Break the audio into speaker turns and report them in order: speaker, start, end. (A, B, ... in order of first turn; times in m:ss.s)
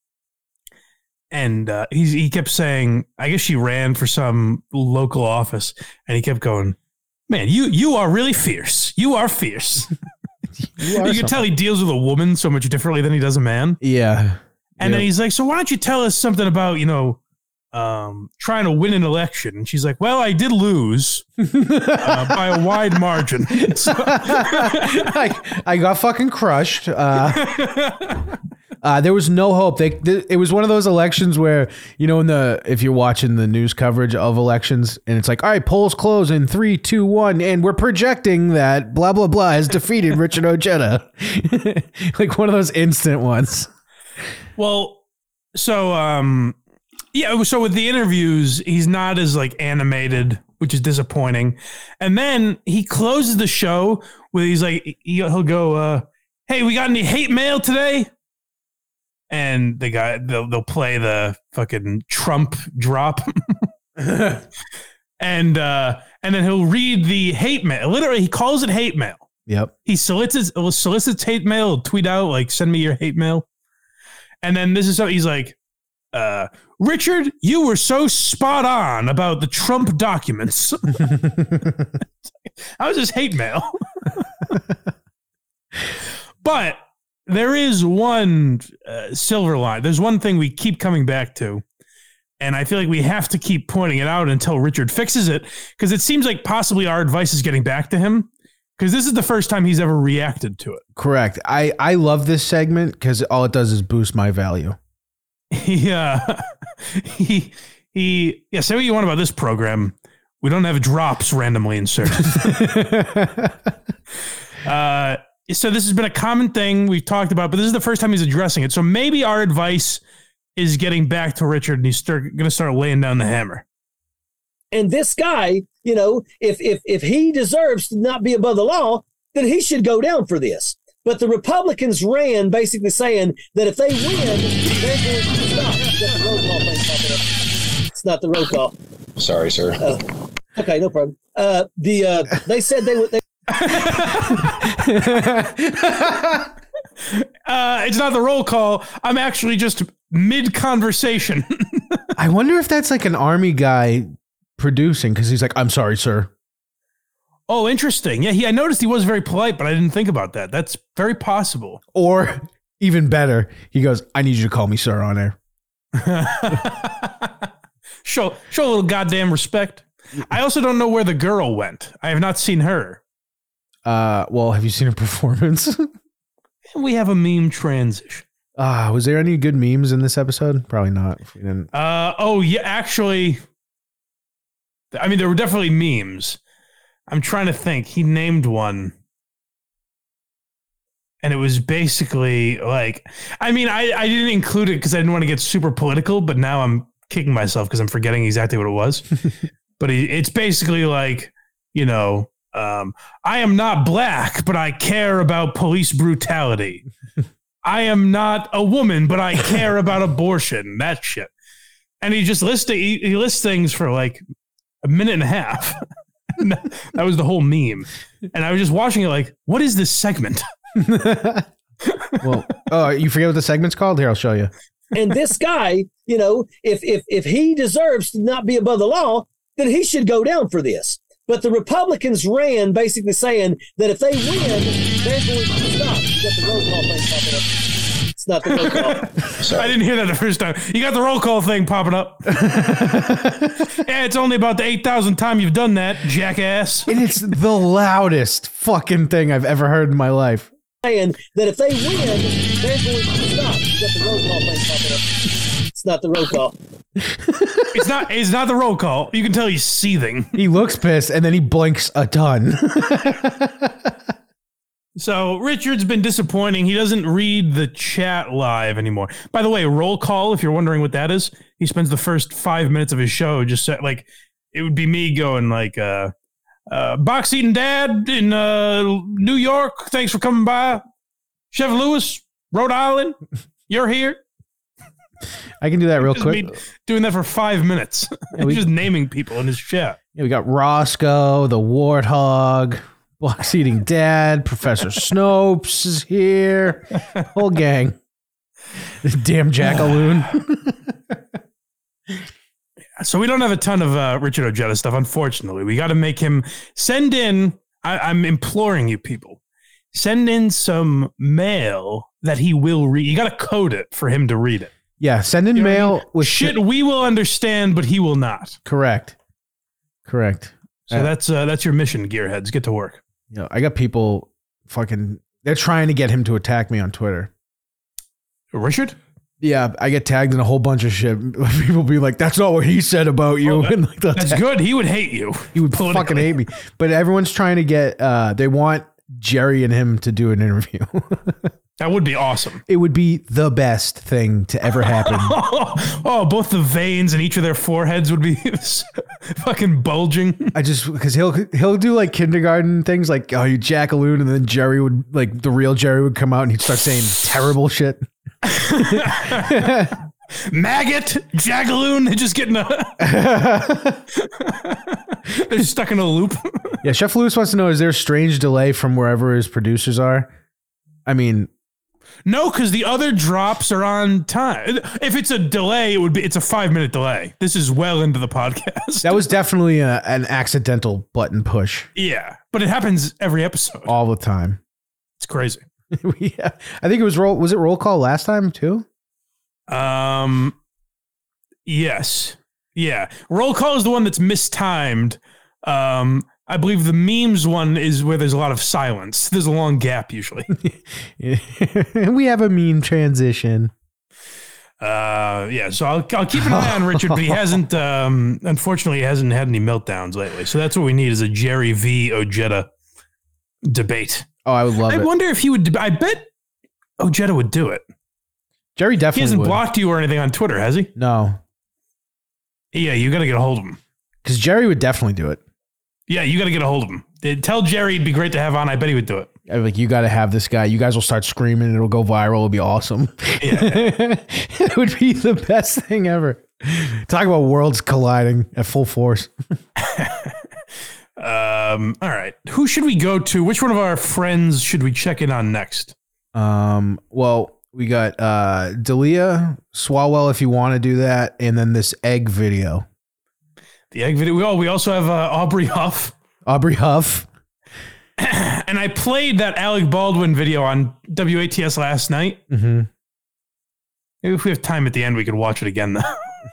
0:01.3-0:06.8 A
0:07.3-0:09.9 A
0:10.6-0:11.4 B
0:10.8-0:13.8 A
0:13.8-0:15.1 B
0:14.8-0:17.2 A
0:17.7-0:21.2 A
0:21.4-0:22.7 B
0:22.0-0:25.1 A
0:23.5-0:27.5 B
0:27.3-0:28.2 A
0:28.8-0:43.7 B
0:44.6-0:45.0 A
0:45.5-0:46.6 A
0:47.1-0:58.1 A
0:59.3-1:03.7 A
1:04.0-1:04.4 B
1:05.2-1:09.2 A
1:09.5-1:09.7 B
1:09.8-1:13.4 A
1:14.4-1:15.6 A
1:16.1-1:21.0 A
1:21.1-1:21.7 B
1:22.8-1:24.5 A
1:26.4-1:31.6 A
1:32.4-1:40.8 A
1:41.0-1:44.8 B
1:45.5-1:52.4 A
1:52.2-1:53.7 B
1:54.6-2:00.0 A
2:00.6-2:03.6 A
2:04.7-2:17.3 C
2:17.9-2:18.7 C
2:19.8-2:20.0 C
2:20.6-2:23.2 C
2:23.5-2:24.5 A
2:24.4-2:26.5 B
2:27.1-2:32.0 A
2:32.2-2:36.3 B
2:37.5-2:41.8 A
2:41.9-2:45.4 B
2:45.9-2:47.5 A
2:48.0-2:53.0 A
2:53.8-2:55.9 B
2:56.7-2:58.2 A
2:58.6-3:01.7 B
3:01.7-3:03.4 A
3:04.9-3:06.4 A
3:07.1-3:08.9 A
3:11.2-3:19.1 A
3:19.8-3:26.8 A
3:27.6-3:31.3 A
3:32.0-3:34.2 A
3:34.8-3:35.8 A
3:36.4-3:40.4 A
3:40.8-3:41.5 B
3:42.2-3:44.5 B
3:44.9-3:57.5 C
3:58.1-3:59.1 C
3:58.6-4:02.4 A
4:02.3-4:03.7 B
4:03.7-4:06.9 A
4:06.9-4:10.5 B
4:10.8-4:15.1 C
4:15.7-4:16.5 C
4:17.0-4:17.9 B
4:17.7-4:20.3 A
4:20.4-4:23.9 B
4:25.0-4:36.1 A
4:36.7-4:40.8 A
4:41.5-4:43.2 A
4:43.7-4:44.2 A
4:45.6-4:46.5 B
4:46.0-4:50.0 A
4:48.3-4:48.7 B
4:50.2-4:58.0 B
4:59.0-5:01.2 B
4:59.6-5:00.0 A
5:03.0-5:09.4 A
5:09.9-5:14.7 A
5:15.0-5:16.6 B
5:15.5-5:18.6 A
5:18.6-5:19.2 B
5:20.0-5:21.1 B
5:20.9-5:23.0 A
5:23.3-5:27.3 B
5:28.5-5:29.0 A
5:29.4-5:34.4 B
5:33.4-5:36.3 A
5:35.5-5:41.5 B
5:41.8-5:42.6 A
5:42.7-5:45.4 B
5:44.9-5:50.5 A
5:50.5-5:58.1 B
5:58.4-5:59.6 A
5:58.7-6:00.0 B
6:00.4-6:03.1 A
6:03.0-6:04.0 B
6:04.2-6:06.8 A
6:06.8-6:10.3 B
6:11.0-6:11.5 B
6:12.2-6:19.2 A
6:19.0-6:21.9 B
6:21.9-6:23.9 A
6:23.9-6:24.6 B
6:25.2-6:25.6 A
6:25.9-6:28.8 B
6:29.7-6:30.5 A
6:31.6-6:40.5 A
6:40.5-6:43.7 B
6:44.8-6:52.7 A
6:46.3-6:47.6 B
6:53.6-6:54.2 A
6:54.4-6:55.1 B
6:54.9-6:56.3 A
6:57.0-6:57.8 A
6:58.8-6:59.6 B
6:59.1-7:00.9 A
7:01.0-7:01.4 B
7:02.7-7:03.8 A
7:04.2-7:05.4 B
7:06.1-7:09.3 A
7:09.5-7:19.3 B
7:13.4-7:13.9 A
7:19.8-7:20.4 A
7:21.2-7:25.9 A
7:26.3-7:32.8 B
7:33.9-7:36.1 A
7:36.4-7:37.3 B
7:38.2-7:42.4 A
7:42.5-7:42.9 B
7:44.2-7:46.3 A